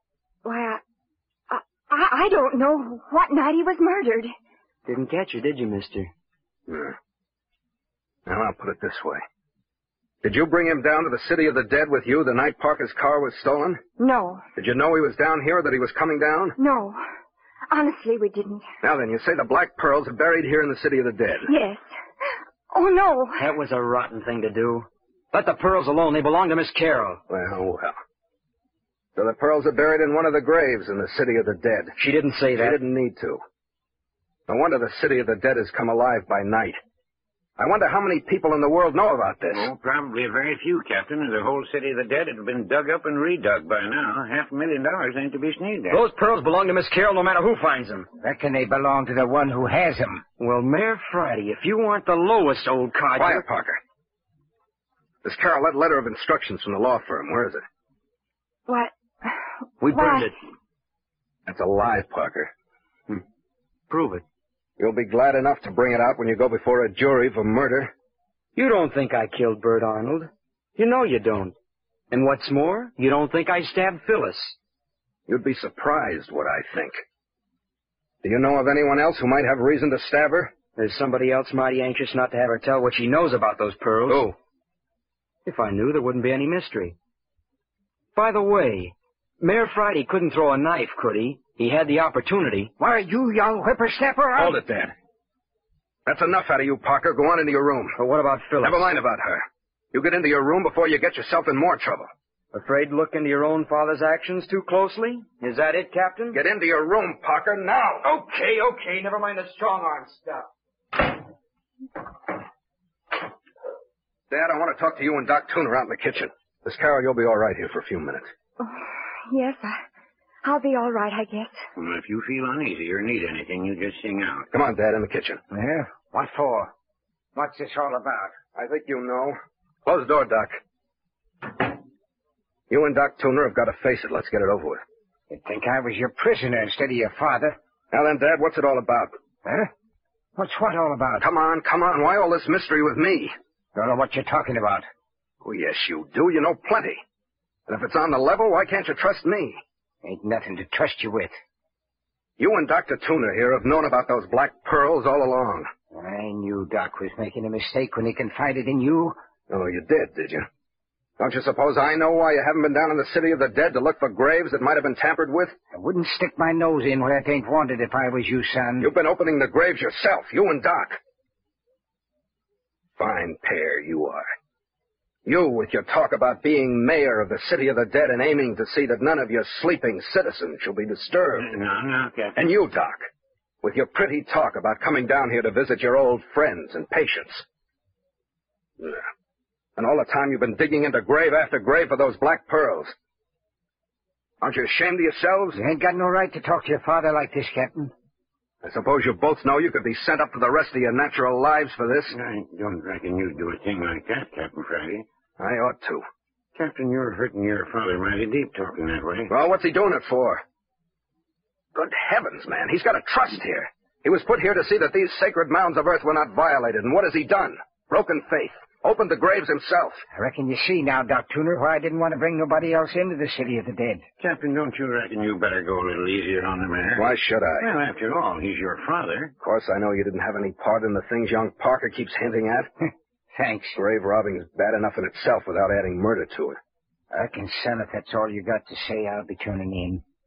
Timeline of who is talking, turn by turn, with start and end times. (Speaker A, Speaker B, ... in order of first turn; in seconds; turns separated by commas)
Speaker A: 0.5-0.8, Speaker A: 1.5-4.3, Speaker B: 4.9-6.1, Speaker C: 6.7-7.0, Speaker C: 8.3-9.2, Speaker C: 10.2-13.8, Speaker A: 14.0-14.4, Speaker C: 14.6-16.6, Speaker A: 16.6-17.0, Speaker A: 17.7-18.7, Speaker C: 18.8-21.5, Speaker A: 21.5-21.8, Speaker A: 22.7-23.4, Speaker B: 23.4-27.2, Speaker C: 27.3-28.0, Speaker C: 29.2-31.9, Speaker B: 32.0-32.8, Speaker C: 32.5-33.4, Speaker C: 34.5-36.8, Speaker C: 37.6-39.7, Speaker D: 39.5-46.0, Speaker B: 45.9-48.1, Speaker E: 48.2-50.2, Speaker B: 50.4-53.4, Speaker C: 53.2-53.8, Speaker C: 55.2-57.6, Speaker A: 58.7-59.4, Speaker B: 59.8-60.4, Speaker A: 59.9-60.3, Speaker C: 61.5-62.5, Speaker B: 63.9-64.2, Speaker C: 64.8-67.9, Speaker B: 68.6-71.5, Speaker B: 72.1-74.5, Speaker C: 75.3-77.0, Speaker C: 78.2-80.5, Speaker B: 80.8-84.3, Speaker C: 84.1-84.3, Speaker B: 85.5-87.0, Speaker B: 88.2-92.7, Speaker E: 92.8-94.6, Speaker C: 94.4-94.9, Speaker C: 96.1-98.0, Speaker B: 98.0-98.9, Speaker C: 98.6-102.1, Speaker B: 102.5-106.4, Speaker C: 106.3-108.1, Speaker B: 108.0-110.5, Speaker C: 114.3-118.3, Speaker A: 118.6-119.8, Speaker A: 120.4-121.6, Speaker D: 121.8-124.5, Speaker C: 124.5-125.4, Speaker E: 125.5-126.7, Speaker E: 127.3-128.4, Speaker C: 128.6-130.6, Speaker C: 132.7-134.8, Speaker E: 135.3-137.6, Speaker C: 137.9-139.1, Speaker E: 139.4-139.7, Speaker E: 140.4-141.2, Speaker C: 141.2-143.3, Speaker E: 143.8-144.8, Speaker C: 145.4-147.0, Speaker C: 147.7-149.6, Speaker E: 150.0-151.3, Speaker C: 152.4-155.7, Speaker E: 155.9-159.2, Speaker C: 159.5-160.5, Speaker C: 161.2-165.6, Speaker E: 165.7-168.9, Speaker C: 168.8-171.0, Speaker C: 173.0-174.3, Speaker C: 175.3-181.5, Speaker D: 181.4-182.3, Speaker C: 182.4-183.1, Speaker C: 183.6-187.4, Speaker C: 188.8-189.1, Speaker C: 189.8-192.9, Speaker C: 194.4-195.6, Speaker E: 195.5-197.9, Speaker C: 198.6-202.2, Speaker D: 202.1-205.1, Speaker C: 205.4-206.0, Speaker D: 206.6-209.3, Speaker C: 209.3-210.4, Speaker C: 211.8-220.0, Speaker E: 220.1-224.0, Speaker D: 224.2-229.3, Speaker C: 227.0-227.7, Speaker C: 229.4-232.7, Speaker E: 233.3-233.8, Speaker C: 233.8-236.6, Speaker E: 237.1-240.0